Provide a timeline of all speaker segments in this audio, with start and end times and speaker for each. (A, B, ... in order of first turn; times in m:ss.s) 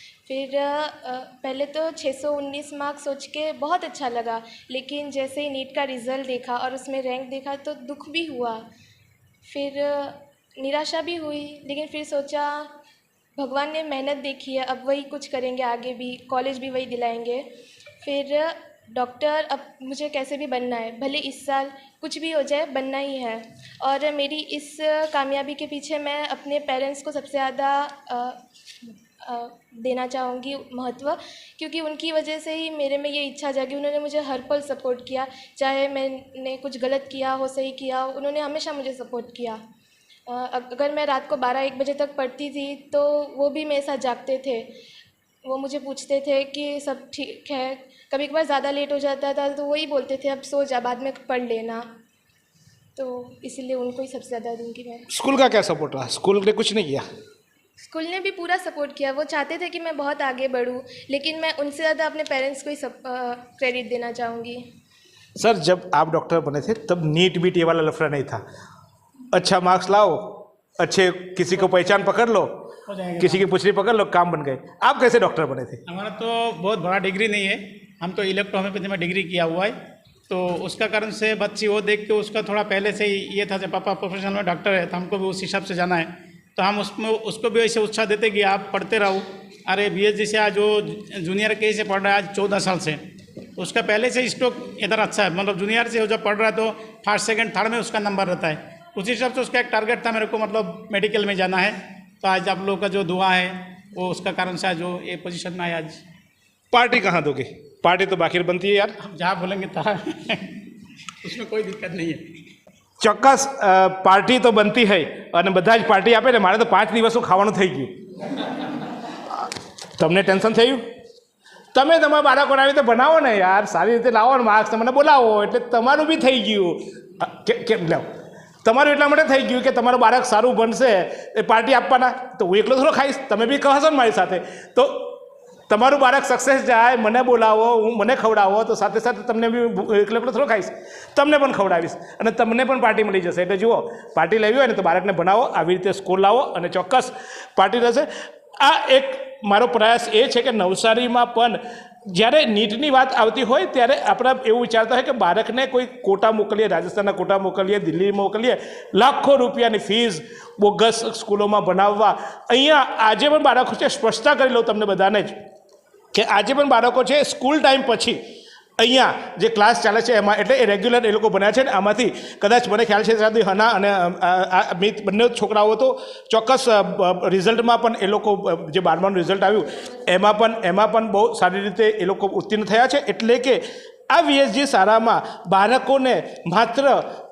0:00.3-0:08.6 A
0:09.5-0:12.7 A
0:13.4-0:17.4 A
0:18.0-0:28.4 A
0:29.2-0:39.6 A
0:40.3-0:44.7 A
0:45.4-0:51.8 A
0:53.0-0:55.0 A
0:55.1-0:57.0 B
0:57.8-1:04.6 A
1:05.4-1:08.4 B
1:09.3-1:12.5 B
1:12.9-1:13.4 C
1:13.2-1:15.8 B
1:15.9-1:19.8 C
1:20.3-1:33.0 C
1:33.6-1:46.0 C
1:46.7-1:48.9 B
1:49.0-1:50.4 C
1:51.2-1:52.3 C
1:53.0-1:57.9 B
1:59.4-2:00.8 B
2:01.7-2:08.0 B
2:08.6-2:15.1 B
2:15.7-2:28.1 B
2:28.6-2:31.6 B
2:32.1-2:45.3 B
2:46.1-2:48.2 B
2:48.8-3:07.0 B